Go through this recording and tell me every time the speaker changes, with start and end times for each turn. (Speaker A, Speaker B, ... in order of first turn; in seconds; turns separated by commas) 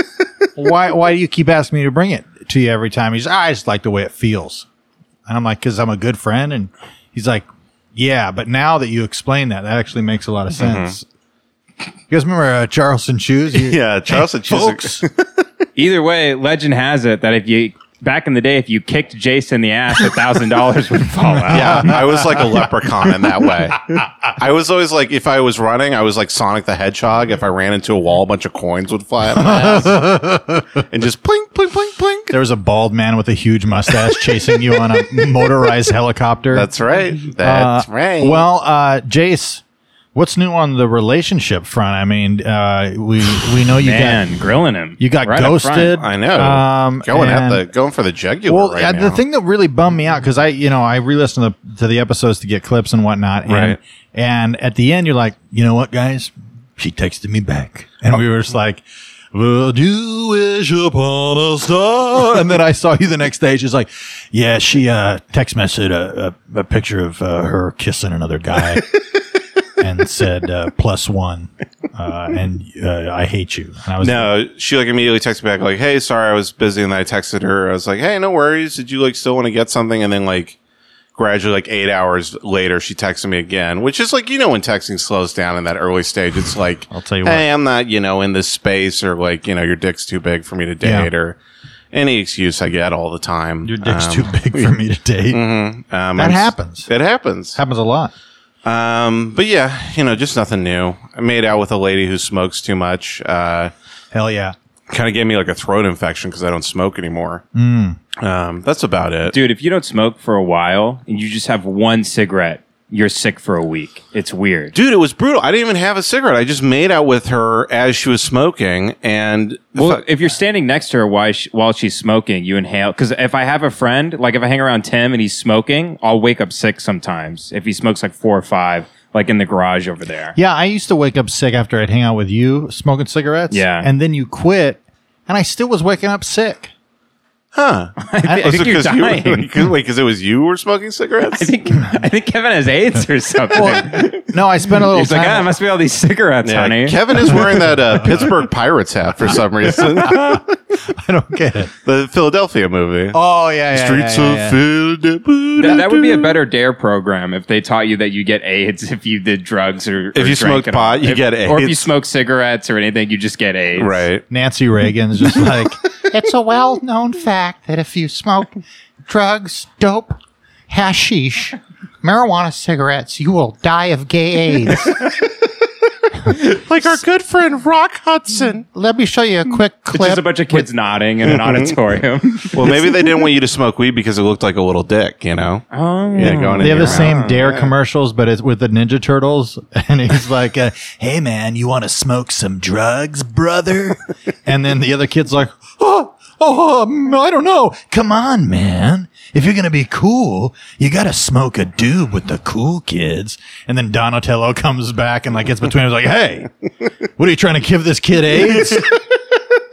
Speaker A: 0.6-4.7, Speaker A: 5.3-11.0, Speaker B: 10.6-10.9, Speaker A: 12.1-15.0, Speaker B: 13.5-15.5, Speaker C: 15.8-22.0, Speaker A: 21.3-22.4, Speaker B: 21.5-30.2, Speaker A: 29.3-30.8, Speaker B: 30.9-32.3, Speaker A: 32.3-36.7, Speaker B: 36.5-38.4, Speaker A: 37.4-39.6, Speaker A: 40.1-44.2, Speaker C: 43.8-45.9, Speaker A: 45.0-47.6, Speaker B: 45.8-49.2, Speaker A: 48.5-68.9, Speaker B: 53.5-53.8, Speaker A: 69.8-74.3, Speaker B: 74.0-80.6, Speaker B: 81.2-91.4, Speaker A: 86.9-87.4, Speaker A: 90.8-91.1, Speaker B: 91.9-94.7, Speaker A: 93.6-95.4, Speaker B: 95.3-97.6, Speaker A: 96.2-96.9, Speaker A: 97.5-98.1, Speaker B: 98.7-103.7, Speaker A: 104.1-104.5, Speaker B: 104.9-107.4, Speaker A: 107.5-108.0, Speaker B: 108.2-109.3, Speaker C: 109.3-114.7, Speaker B: 114.7-120.0, Speaker C: 119.7-130.3, Speaker A: 130.3-136.7, Speaker C: 133.5-133.9, Speaker B: 137.5-141.5, Speaker C: 138.0-139.5, Speaker C: 141.3-147.4, Speaker A: 143.5-145.5, Speaker B: 146.4-150.4, Speaker A: 150.0-151.7, Speaker B: 151.8-153.2, Speaker A: 153.1-154.6, Speaker B: 153.7-156.4, Speaker C: 155.6-164.0, Speaker B: 160.2-161.9, Speaker B: 163.8-164.2, Speaker A: 164.3-170.2, Speaker A: 170.7-175.0, Speaker B: 176.3-178.7, Speaker A: 178.7-180.3, Speaker C: 179.9-182.8, Speaker B: 181.2-181.7, Speaker B: 182.5-187.7, Speaker C: 185.7-187.4, Speaker A: 186.6-206.5, Speaker A: 207.2-208.9, Speaker B: 208.5-208.8